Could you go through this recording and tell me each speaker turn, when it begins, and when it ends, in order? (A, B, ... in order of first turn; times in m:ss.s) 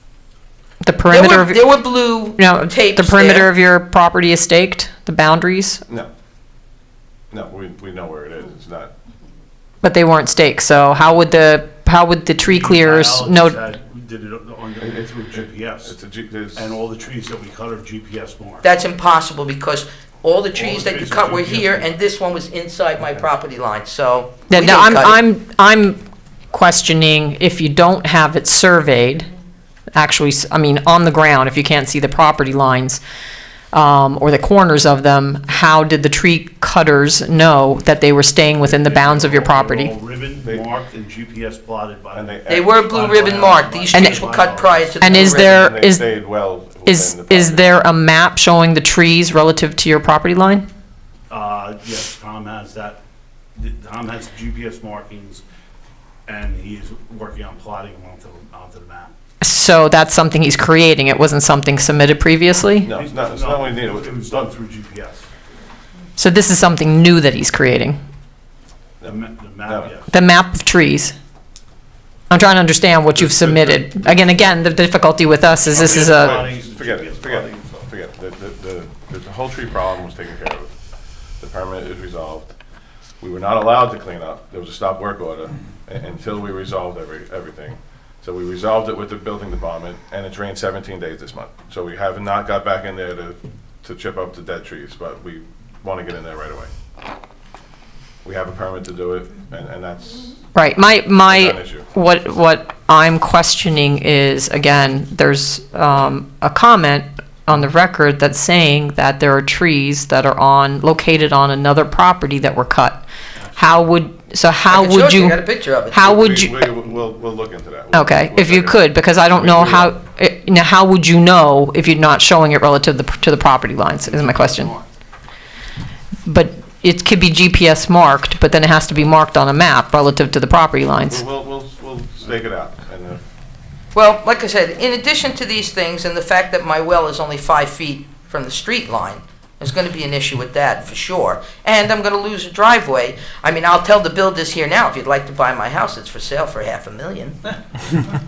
0:00.8-0:01.7 A
0:01.1-0:03.5 B
0:02.4-0:05.8 A
0:07.3-0:08.9 C
0:09.8-0:13.6 A
0:12.4-0:16.0 D
0:14.8-0:16.7 C
0:16.5-0:18.7 D
0:18.6-0:25.2 B
0:20.5-0:22.0 D
0:24.5-0:26.0 A
0:26.5-0:29.3 A
0:29.9-0:33.0 A
0:33.7-0:39.9 A
0:38.6-0:45.3 D
0:40.4-0:40.7 C
0:42.1-0:43.6 C
0:42.5-0:45.7 B
0:43.9-0:44.2 A
0:45.0-0:46.0 A
0:45.1-0:47.8 C
0:46.8-0:50.6 A
0:51.3-0:53.0 D
0:53.5-0:55.4 D
0:56.2-0:59.1 D
0:59.4-1:02.9 A
1:02.8-1:04.5 C
1:02.9-1:05.3 D
1:06.2-1:08.0 A
1:09.0-1:10.1 D
1:10.1-1:11.1 A
1:12.3-1:16.5 A
1:13.1-1:14.5 C
1:15.7-1:17.8 D
1:15.7-1:20.8 C
1:21.4-1:22.5 C
1:23.2-1:36.7 C
1:38.2-1:40.3 C
1:40.5-1:53.0 A
1:41.2-1:41.9 C
1:53.6-1:56.6 A
1:54.7-1:56.0 B
1:56.0-2:00.0 C
1:57.9-2:04.7 A
2:04.0-2:04.8 D
2:06.3-2:11.2 A
2:11.0-2:13.2 C
2:13.9-2:27.5 B